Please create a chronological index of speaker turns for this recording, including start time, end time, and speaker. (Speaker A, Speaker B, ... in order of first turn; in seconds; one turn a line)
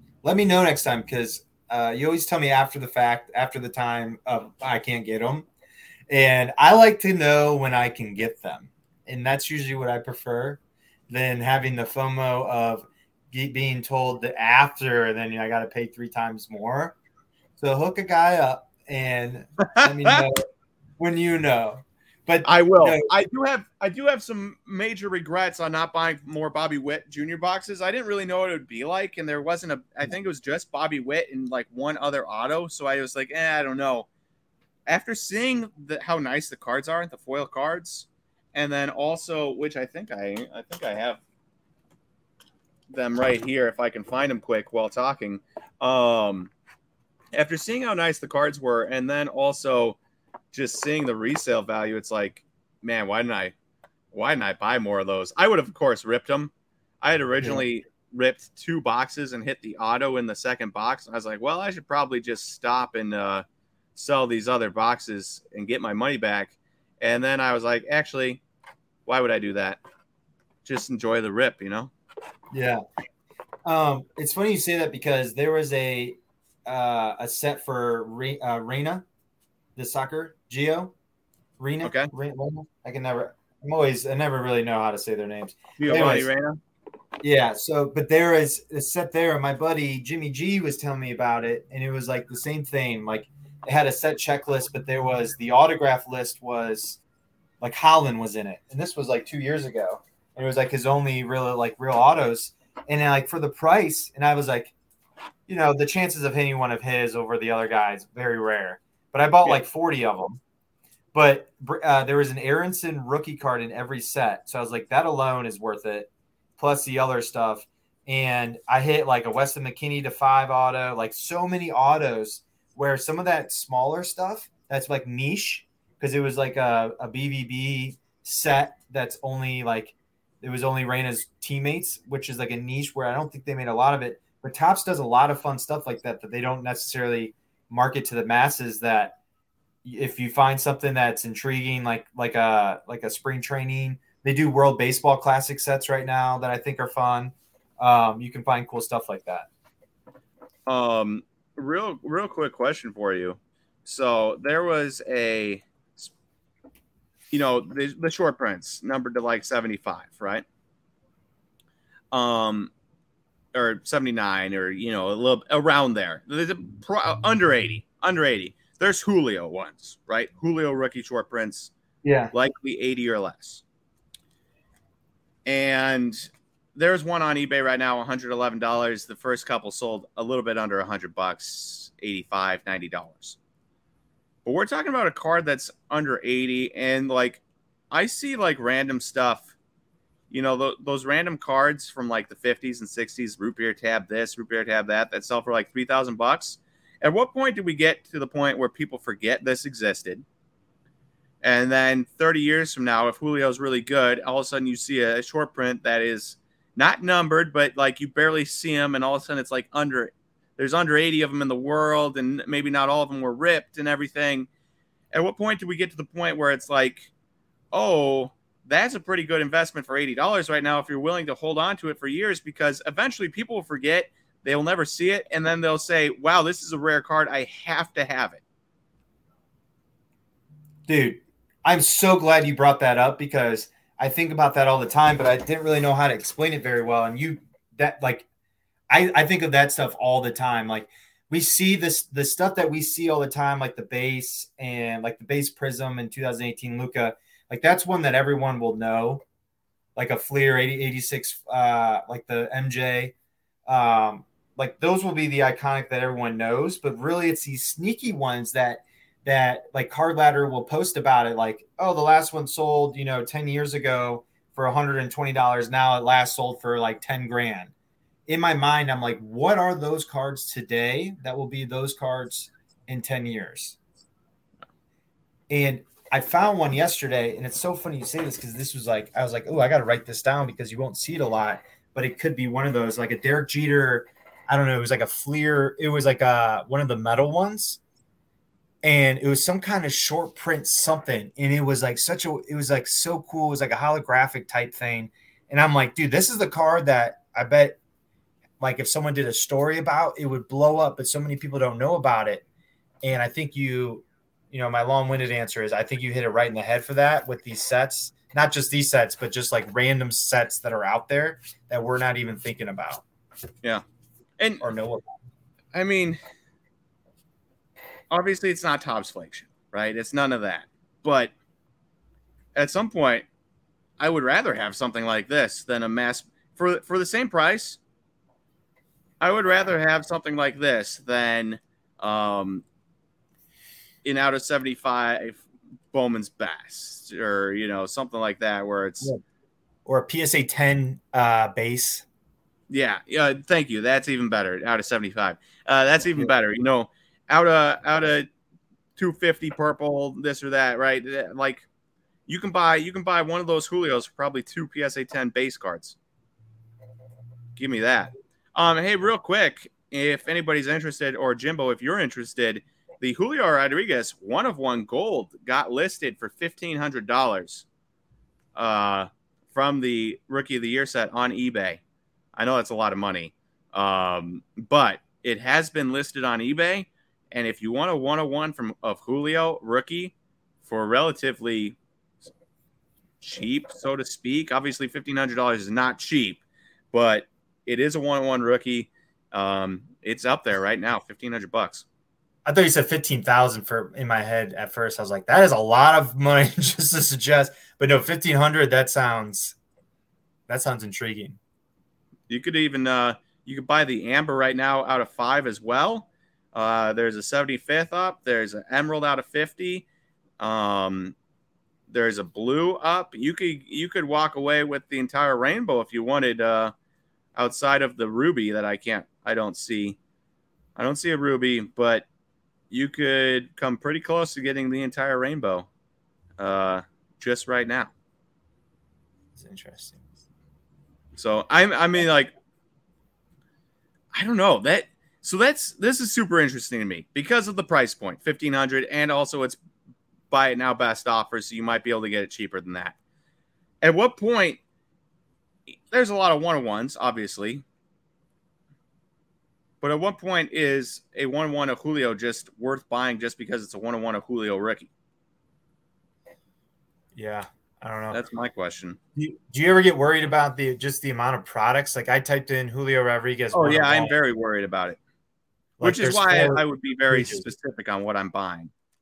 Speaker A: 0.2-5.5
Speaker A: 6.1-16.9
Speaker A: 17.6-20.4
Speaker B: 19.6-20.2
Speaker A: 21.0-23.1
Speaker B: 22.4-34.1
Speaker B: 34.9-41.2
Speaker B: 42.9-46.5
Speaker B: 47.3-50.0
Speaker B: 50.5-53.5
Speaker B: 54.1-63.4
Speaker B: 63.9-68.4
Speaker B: 69.0-69.8
Speaker B: 70.6-71.9
Speaker A: 72.5-72.8
Speaker A: 73.6-79.0
Speaker A: 79.8-80.9
Speaker A: 81.6-86.3
Speaker B: 81.8-82.1
Speaker B: 85.8-86.6
Speaker A: 87.2-97.0
Speaker A: 97.6-104.7
Speaker A: 105.5-110.4
Speaker A: 111.1-139.2
Speaker A: 139.8-149.5
Speaker B: 150.7-156.1
Speaker B: 157.3-160.4
Speaker B: 162.1-162.7
Speaker B: 163.5-171.7
Speaker A: 172.0-172.3
Speaker B: 172.3-173.6
Speaker B: 175.4-183.4
Speaker B: 184.4-189.5
Speaker B: 190.3-200.2
Speaker B: 201.4-214.5
Speaker B: 215.1-217.1
Speaker B: 217.7-228.4
Speaker A: 230.9-238.2
Speaker A: 238.9-249.2
Speaker A: 249.9-253.1
Speaker A: 253.7-267.7
Speaker A: 268.3-273.8
Speaker A: 275.5-287.8
Speaker A: 288.8-297.8
Speaker A: 298.6-302.4
Speaker A: 303.0-313.0
Speaker A: 314.6-315.1
Speaker B: 315.7-316.2
Speaker B: 318.1-321.3
Speaker B: 322.5-323.2
Speaker B: 324.0-327.8
Speaker B: 329.2-332.6
Speaker B: 334.0-339.1
Speaker A: 339.9-342.0
Speaker B: 342.7-348.3
Speaker B: 348.9-351.7
Speaker B: 352.3-355.9
Speaker B: 357.6-367.6
Speaker B: 368.6-371.8
Speaker B: 372.3-381.8
Speaker B: 383.2-391.8
Speaker A: 392.4-399.6
Speaker A: 400.5-401.4
Speaker B: 402.3-409.9
Speaker B: 410.4-411.1
Speaker B: 411.9-416.7
Speaker B: 417.3-420.0
Speaker B: 420.8-422.1
Speaker B: 422.7-425.7
Speaker B: 426.4-427.9
Speaker A: 429.4-430.0
Speaker B: 431.2-432.3
Speaker B: 434.1-439.6
Speaker B: 440.3-442.9
Speaker B: 443.8-444.6
Speaker B: 445.9-447.6
Speaker B: 449.8-454.9
Speaker A: 457.1-458.2
Speaker B: 458.1-459.0
Speaker A: 459.1-464.1
Speaker B: 463.5-465.0
Speaker A: 465.8-467.4
Speaker B: 465.8-468.7